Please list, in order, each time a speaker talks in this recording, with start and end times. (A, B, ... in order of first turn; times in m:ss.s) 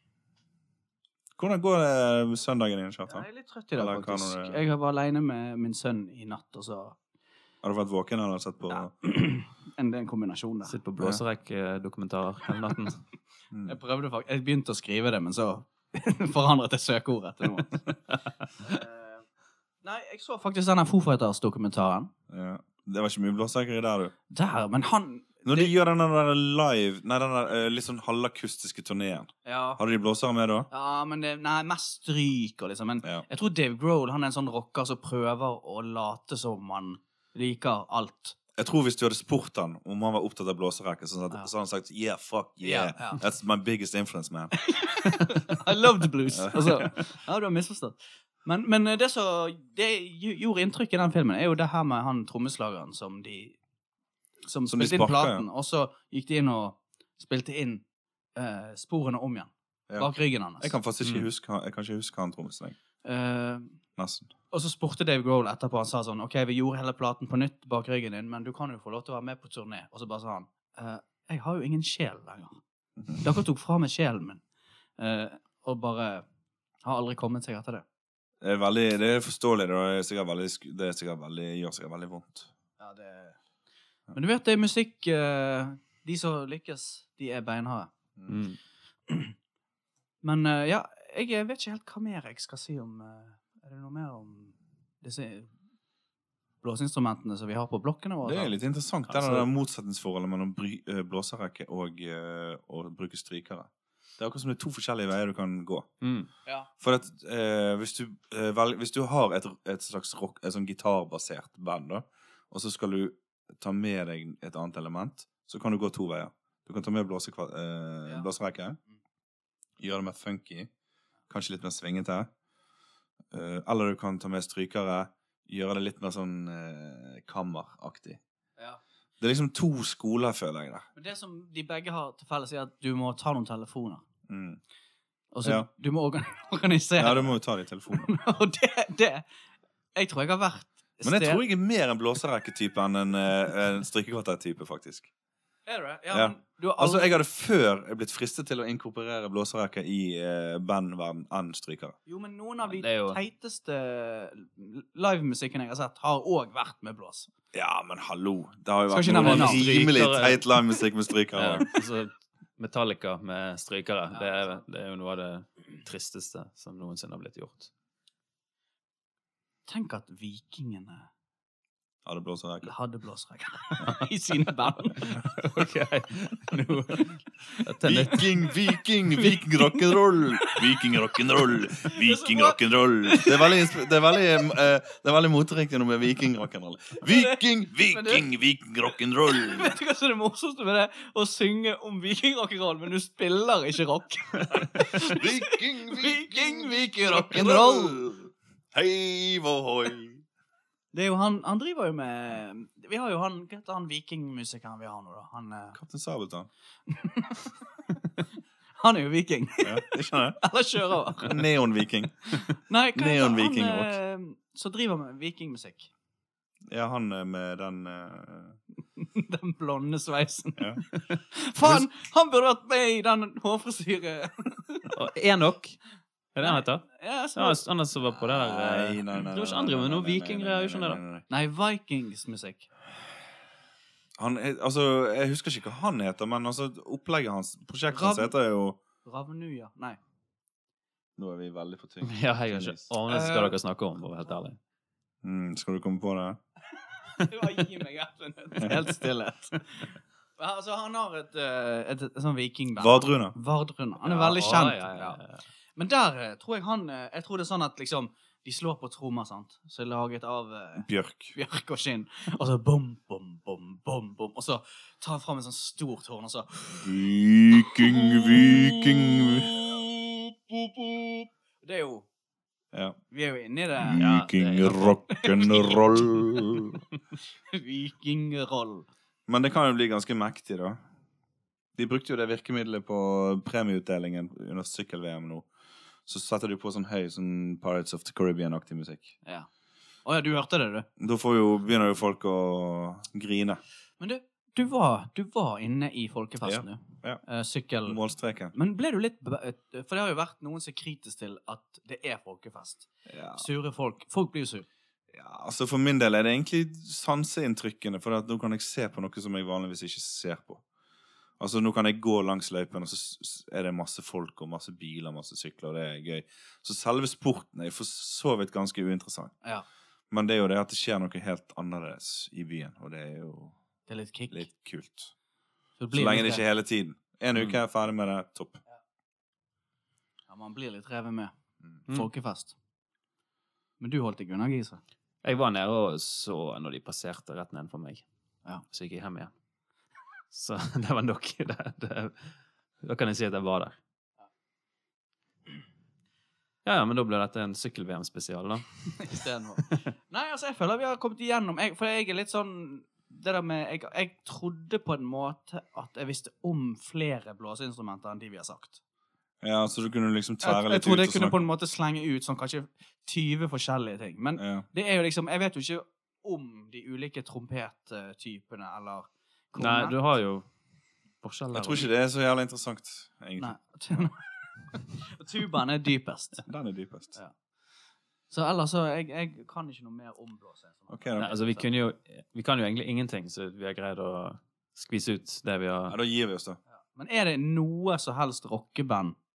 0:01.4-0:04.6 A
0:03.1-0:07.0 B
0:07.6-0:08.9 A
0:08.7-0:10.8 B
0:10.6-0:13.0 C
0:13.5-0:13.8 A
0:13.6-0:17.9 B
0:18.6-0:19.2 B
0:19.8-0:22.1 B
0:22.3-0:24.1 A
0:24.3-0:25.7 B
0:25.4-0:30.7 A
0:29.4-0:29.8 B
0:30.7-0:38.4 B
0:38.6-0:44.5 A
0:42.6-0:43.2 B
0:44.6-0:53.6 B
0:46.3-0:47.0 A
0:54.4-0:57.8 B
0:54.7-0:55.5 A
0:58.4-1:00.8 B
0:59.9-1:02.8 A
1:03.0-1:03.8 B
1:04.0-1:04.3 A
1:04.5-1:12.6 B
1:13.2-1:14.4 B
1:15.0-1:16.2 B
1:16.8-1:17.8 B
1:18.4-1:22.5 A
1:22.8-1:23.4 B
1:24.1-1:27.9 B
1:28.2-1:28.4 A
1:28.3-1:28.6 C
1:29.1-1:29.4 B
1:30.2-1:35.5 B
1:36.6-1:38.6 B
1:38.2-1:45.9 A
1:39.1-1:39.4 B
1:46.0-1:46.3 C
1:46.8-1:58.8 A
1:59.8-2:00.7 A
2:01.3-2:02.3 A
2:03.3-2:08.2 A
2:09.2-2:10.9 A
2:11.0-2:14.0 B
2:14.3-2:14.6 A
2:15.3-2:17.4 B
2:17.0-2:18.1 A
2:17.9-2:19.2 B
2:20.0-2:21.4 B
2:21.0-2:25.1 A
2:25.7-2:27.2 B
2:26.1-2:32.0 A
2:32.1-2:37.3 B
2:32.6-2:33.2 C
2:37.5-2:41.6 A
2:38.9-2:39.9 B
2:39.1-2:40.6 C
2:41.3-2:47.7 C
2:44.1-2:44.6 B
2:49.7-2:51.1 B
2:52.0-2:52.7 A
2:52.6-2:55.3 B
2:55.1-2:58.2 C
2:57.8-3:09.8 A
2:59.2-3:00.9 B
3:01.6-3:03.9 B
3:07.0-3:08.3 B
3:09.3-3:18.1 B
3:14.5-3:20.2 A
3:20.9-3:25.8 B
3:25.8-3:26.5 A
3:26.9-3:28.2 B
3:28.8-3:31.4 B
3:29.6-3:30.4 A
3:31.2-3:32.4 A
3:32.4-3:35.9 B
3:33.0-3:34.0 A
3:36.7-3:38.6 A
3:39.0-3:44.9 B
3:40.6-3:40.8 A
3:41.6-3:41.9 A
3:44.9-3:45.8 C
3:46.4-3:51.0 C
3:46.4-3:47.6 B
3:48.1-3:51.2 A
3:51.3-3:52.7 B
3:54.2-3:58.8 A
3:57.9-3:58.3 B
3:59.0-4:00.0 B
4:01.2-4:02.9 A
4:02.0-4:04.6 C
4:03.1-4:03.6 B
4:05.2-4:06.4 A
4:07.1-4:15.2 B
4:08.6-4:09.0 A
4:12.8-4:13.4 A
4:14.0-4:15.4 C
4:15.8-4:26.8 B
4:20.8-4:21.4 A
4:26.7-4:29.9 A
4:27.9-4:29.9 B
4:30.5-4:32.1 B
4:33.1-4:34.1 B
4:33.8-4:36.8 A
4:34.0-4:35.0 C
4:35.1-4:36.0 B
4:37.5-4:38.9 B
4:39.3-4:40.8 A
4:41.8-4:45.5 A
4:46.1-4:49.1 A
4:50.0-4:50.9 B
4:51.0-4:53.6 A
4:54.0-4:58.0 B
4:56.4-4:57.2 A
4:57.9-4:58.6 A
4:58.5-5:04.7 B
5:03.1-5:03.5 A
5:05.1-5:10.6 A
5:11.4-5:19.3 A
5:20.1-5:23.6 A
5:23.9-5:24.5 B
5:24.3-5:25.1 A
5:25.8-5:26.4 B
5:25.9-5:28.6 A
5:30.3-5:31.3 B
5:31.9-5:32.5 B
5:33.8-5:34.8 B
5:35.2-5:38.0 C
5:38.7-5:39.3 C
5:40.3-5:43.8 C
5:46.6-5:49.8 C
5:49.0-5:58.8 B
5:59.4-6:01.4 A
6:00.4-6:10.0 B
6:04.4-6:04.6 A
6:09.6-6:10.5 C
6:11.2-6:11.9 C
6:11.5-6:14.1 A
6:13.4-6:16.4 B
6:16.5-6:17.2 A
6:18.3-6:21.6 B
6:20.9-6:21.3 A
6:21.2-6:26.0 C
6:25.9-6:26.6 A
6:26.9-6:29.2 B